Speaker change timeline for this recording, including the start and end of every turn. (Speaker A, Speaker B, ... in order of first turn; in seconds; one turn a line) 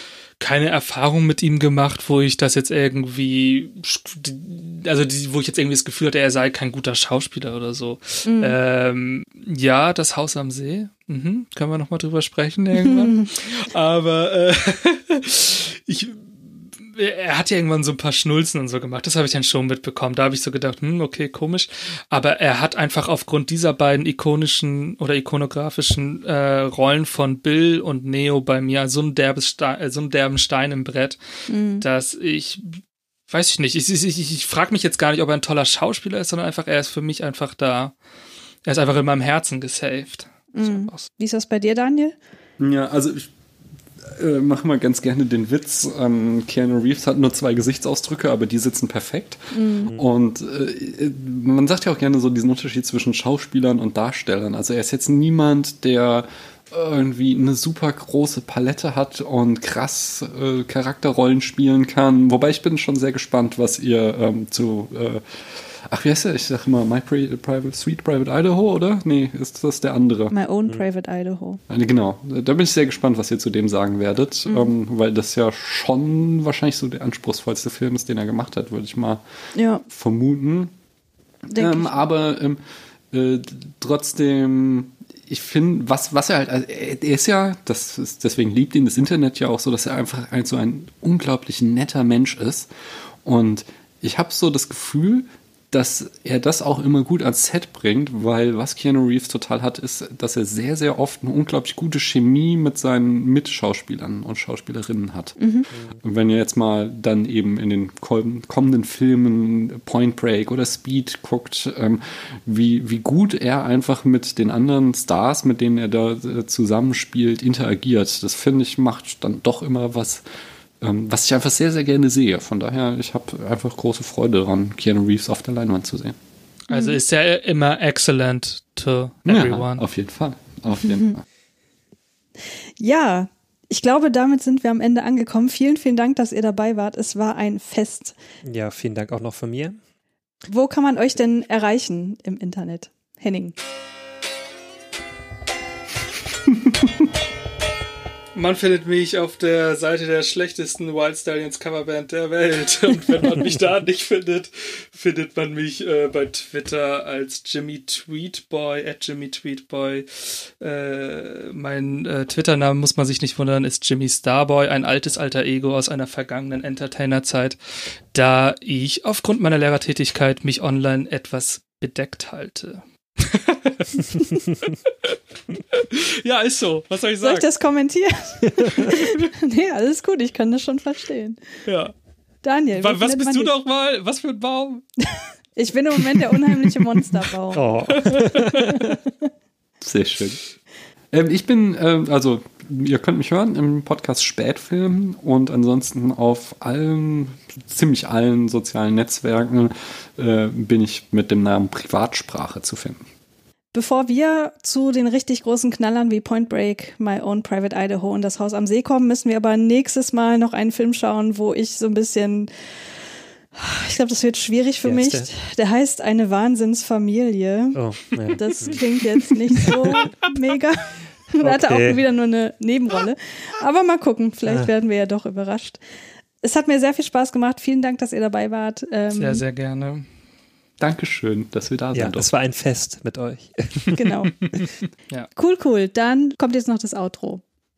Speaker A: 0.4-31.2
Speaker B: 8.2-8.6
Speaker B: 12.8-13.3
Speaker B: 31.5-31.8
Speaker A: 31.8-37.9
Speaker A: 38.6-41.1
Speaker B: 40.5-42.1
Speaker C: 42.6-43.3
Speaker C: 44.0-70.3
Speaker B: 49.5-49.9
Speaker B: 70.3-71.6
Speaker C: 71.7-79.2
Speaker B: 74.5-74.7
Speaker B: 79.5-79.8
Speaker C: 79.9-80.7
Speaker B: 81.5-82.0
Speaker C: 81.5-82.6
Speaker C: 83.1-92.7
Speaker C: 93.2-105.4
Speaker B: 105.4-105.7
Speaker D: 105.7-106.0
Speaker C: 106.0-120.2
Speaker C: 120.8-126.2
Speaker A: 126.7-129.8
Speaker B: 126.7-127.0
Speaker C: 129.3-131.2
Speaker B: 132.8-138.1
Speaker D: 138.4-139.8
Speaker B: 140.5-143.5
Speaker A: 148.3-167.6
Speaker A: 168.1-175.2
Speaker A: 175.7-177.5
Speaker B: 177.2-181.4
Speaker A: 181.7-181.9
Speaker B: 182.4-183.6
Speaker A: 182.8-184.8
Speaker B: 185.6-187.7
Speaker D: 187.5-189.0
Speaker A: 187.9-188.8
Speaker C: 189.8-190.4
Speaker C: 191.1-203.0
Speaker B: 203.7-212.5
Speaker B: 213.5-217.8
Speaker D: 214.8-215.3
Speaker D: 217.7-218.8
Speaker B: 218.4-225.8
Speaker D: 221.4-222.1
Speaker D: 224.4-224.7
Speaker B: 226.4-229.4
Speaker A: 229.1-230.1
Speaker C: 230.8-232.3
Speaker D: 231.9-234.1
Speaker B: 233.9-234.3
Speaker B: 235.3-237.4